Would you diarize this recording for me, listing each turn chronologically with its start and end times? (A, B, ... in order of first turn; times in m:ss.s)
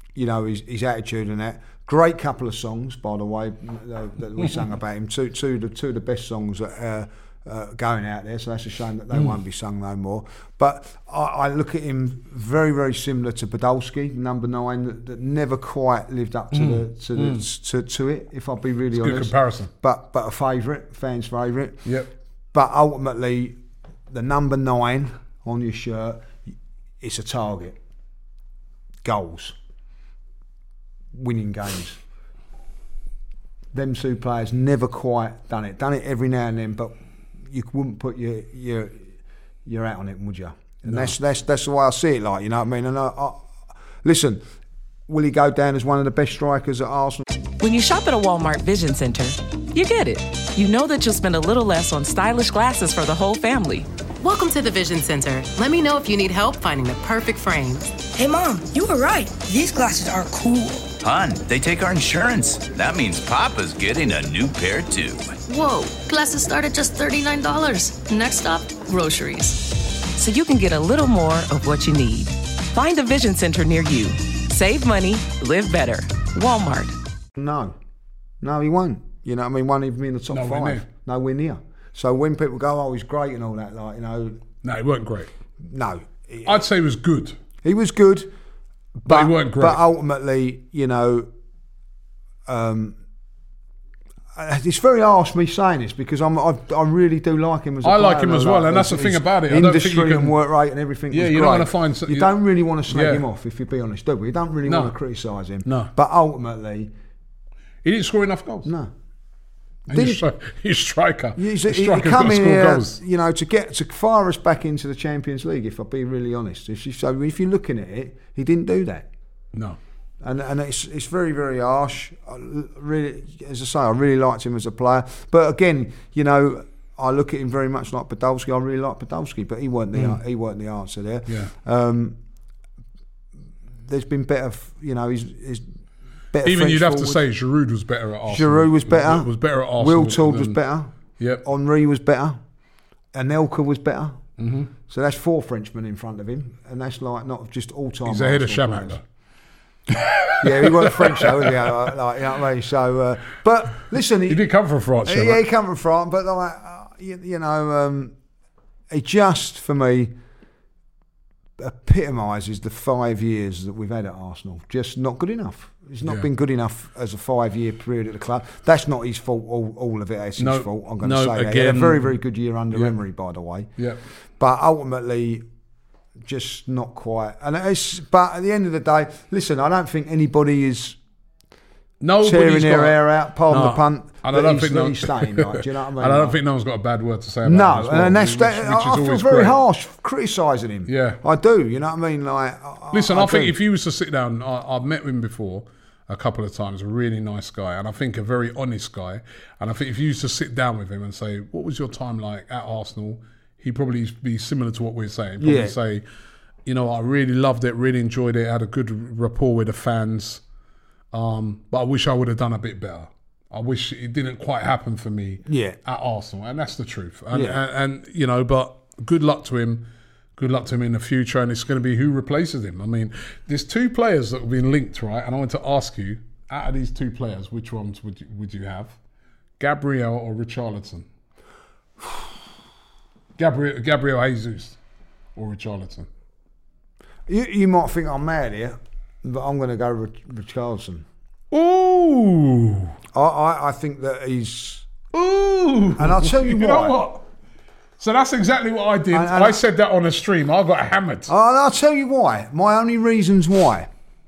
0:00.2-0:21.9 A
0:16.5-0:17.4 B
0:18.9-0:19.7 B
0:22.5-0:27.8 A
0:29.0-0:29.6 A
0:31.1-0:32.0 A
0:33.7-0:39.1 A
0:39.6-0:44.4 A
0:40.9-0:41.1 B
0:45.1-0:47.2 A
0:47.6-0:53.9 C
0:54.2-0:57.9 D
0:58.1-1:00.9 E
1:01.0-1:05.4 F
1:05.5-1:09.6 G
1:10.2-1:17.0 C
1:17.4-1:17.8 A
1:18.4-1:24.4 A
1:20.3-1:20.8 B
1:24.6-1:25.3 B
1:25.6-1:26.6 A
1:26.4-1:27.4 B
1:27.6-1:28.3 A
1:29.0-1:31.3 A
1:29.1-1:29.8 B
1:32.5-1:33.0 A
1:34.4-1:46.9 A
1:37.8-1:40.4 B
1:41.1-1:42.3 B
1:42.9-1:43.2 B
1:44.7-1:44.9 B
1:47.8-1:48.7 B
1:48.6-1:48.9 A
1:49.9-1:53.0 B
1:49.9-1:50.2 A
1:51.4-1:59.1 A
2:00.2-2:12.2 A
2:10.0-2:10.2 B
2:13.8-2:15.7 A
2:16.3-2:17.2 A
2:16.4-2:20.6 B
2:18.3-2:22.4 A
2:23.1-2:24.2 A
2:24.4-2:24.7 B
2:24.9-2:29.0 A
2:28.1-2:29.0 B
2:29.9-2:31.6 B
2:30.4-2:34.5 A
2:34.3-2:35.4 B
2:35.0-2:38.1 A
2:38.9-2:40.1 A
2:41.6-2:53.7 A
2:50.4-2:52.1 B
2:54.4-2:55.5 A
2:56.2-3:01.0 A
3:02.0-3:09.6 B
3:02.2-3:06.4 A
3:07.4-3:13.6 A
3:10.9-3:11.2 B
3:12.9-3:26.0 B
3:25.4-3:25.8 A
3:26.7-3:30.4 B
3:31.1-3:49.0 B
3:35.5-3:35.8 A
3:37.3-3:37.6 A
3:49.6-3:51.1 B
3:53.4-3:54.8 B
3:55.4-3:56.1 B
3:57.3-4:01.1 A
4:01.5-4:03.0 B
4:03.1-4:04.9 A
4:05.1-4:07.2 B
4:06.0-4:07.0 A
4:08.0-4:11.3 B
4:09.1-4:09.6 A
4:11.3-4:13.9 A